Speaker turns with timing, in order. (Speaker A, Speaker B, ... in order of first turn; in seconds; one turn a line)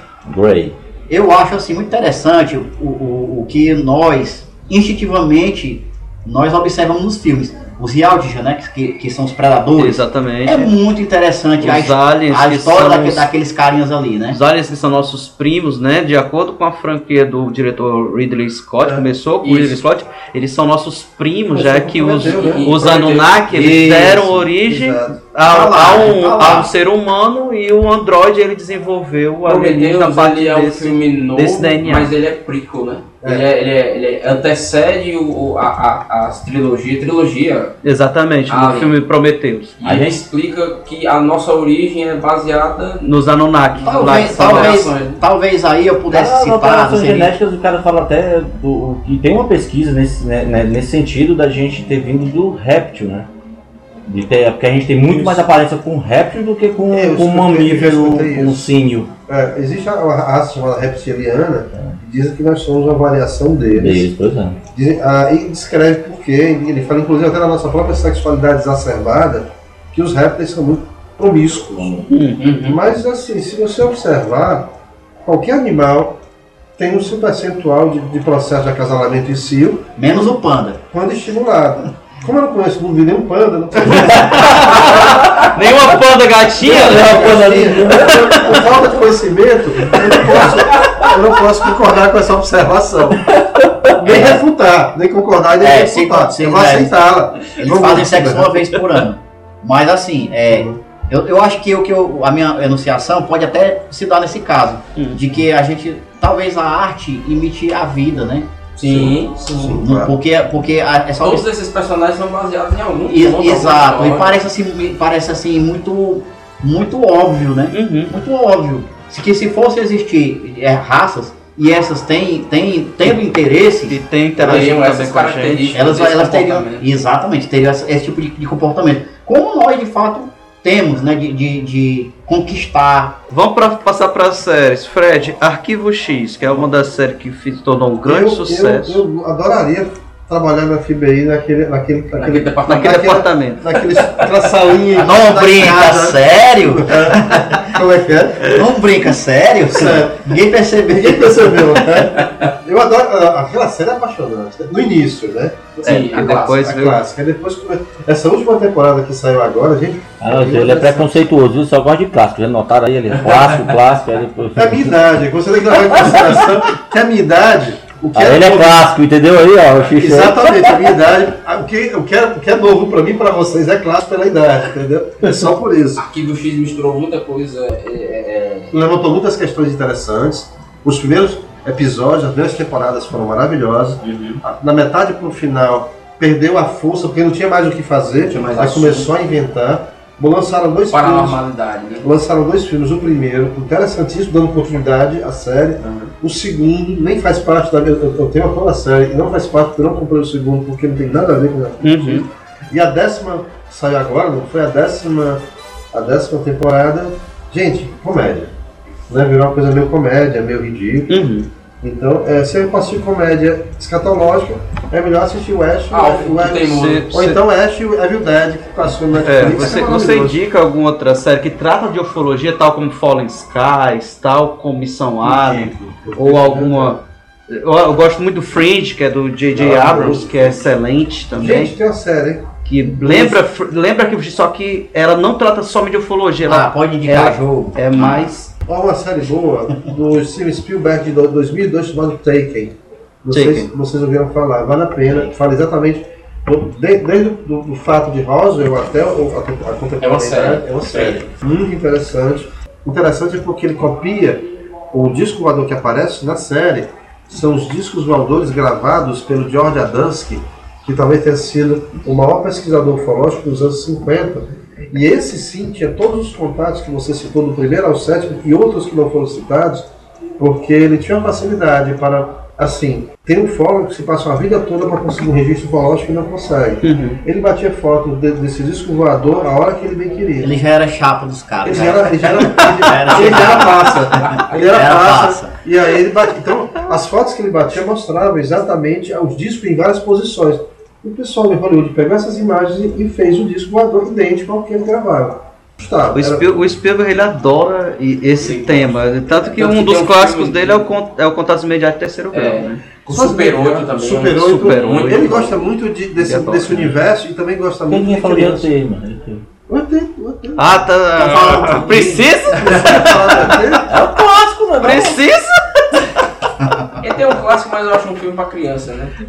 Speaker A: 0.3-0.8
Speaker B: 1.1-14.4
Speaker C: 9.8-10.7
Speaker C: 11.6-13.3
Speaker C: 14.3-32.1
Speaker D: 18.8-19.1
Speaker E: 19.4-19.8
Speaker D: 21.5-25.2
Speaker E: 22.2-23.3
Speaker B: 25.5-26.7
Speaker E: 29.5-37.8
Speaker C: 37.8-39.8
Speaker E: 38.5-39.0
Speaker E: 39.8-43.0
Speaker A: 39.8-40.2
Speaker C: 43.0-45.0
Speaker E: 43.8-45.2
Speaker B: 43.8-47.4
Speaker A: 46.1-53.3
Speaker A: 54.1-59.1
Speaker D: 55.0-55.5
Speaker D: 56.9-58.7
Speaker D: 59.3-64.1
Speaker A: 63.8-64.6
Speaker D: 64.7-72.0
Speaker A: 71.8-72.1
Speaker C: 72.1-72.5
Speaker E: 72.4-72.8
Speaker D: 72.6-74.7
Speaker D: 75.2-76.2
Speaker D: 76.8-80.4
Speaker B: 80.0-80.8
Speaker D: 80.9-85.2
Speaker C: 83.9-87.5
Speaker D: 86.6-93.3
Speaker A: 86.6-88.6
Speaker A: 89.9-91.1
Speaker A: 93.6-94.3
Speaker D: 94.0-98.5
Speaker B: 94.0-94.4
Speaker B: 95.6-96.9
Speaker B: 97.6-108.5
Speaker D: 100.5-100.8
Speaker E: 108.8-109.8
Speaker D: 108.9-110.1
Speaker B: 109.8-111.4
Speaker E: 111.2-114.4
Speaker B: 113.1-124.6
Speaker C: 117.7-118.1
Speaker C: 123.9-125.9
Speaker E: 124.4-126.9
Speaker B: 125.7-133.2
Speaker C: 133.3-139.0
Speaker D: 138.1-148.7
Speaker E: 142.2-143.2
Speaker C: 142.7-143.6
Speaker E: 143.8-144.4
Speaker B: 145.0-147.6
Speaker B: 148.5-151.4
Speaker D: 149.7-150.3
Speaker D: 150.9-161.3
Speaker E: 152.2-152.5
Speaker C: 155.8-157.0
Speaker E: 155.9-156.6
Speaker A: 160.2-164.9
Speaker E: 163.3-163.7
Speaker D: 164.6-168.9
Speaker A: 166.1-166.4
Speaker A: 168.2-170.8
Speaker D: 169.9-176.0
Speaker E: 176.0-178.7
Speaker D: 178.7-191.4
Speaker E: 184.0-184.4
Speaker E: 188.2-189.1
Speaker E: 190.9-192.1
Speaker D: 192.0-208.5
Speaker E: 195.8-196.1
Speaker C: 201.8-202.2
Speaker D: 209.1-211.2
Speaker C: 211.1-211.5
Speaker D: 211.8-220.4
Speaker E: 215.9-217.1
Speaker C: 216.7-217.4
Speaker C: 219.2-231.7
Speaker D: 225.2-227.0
Speaker D: 229.5-230.7
Speaker D: 231.4-232.5
Speaker C: 232.7-238.5
Speaker D: 233.0-233.4
Speaker B: 236.5-238.3
Speaker D: 238.7-280.5
Speaker C: 243.3-243.7
Speaker E: 250.0-251.3
Speaker C: 276.8-277.2
Speaker B: 280.4-285.5
Speaker D: 281.6-296.6
Speaker C: 296.1-302.9
Speaker E: 298.4-300.9
Speaker E: 302.3-305.6
Speaker D: 303.1-308.7
Speaker C: 304.3-305.5
Speaker C: 306.2-306.9
Speaker A: 307.9-309.4
Speaker D: 309.7-310.8
Speaker C: 310.6-313.8
Speaker B: 311.2-312.3
Speaker D: 312.5-313.9
Speaker E: 312.7-313.5
Speaker A: 313.9-315.3
Speaker C: 314.8-316.0
Speaker E: 317.0-319.1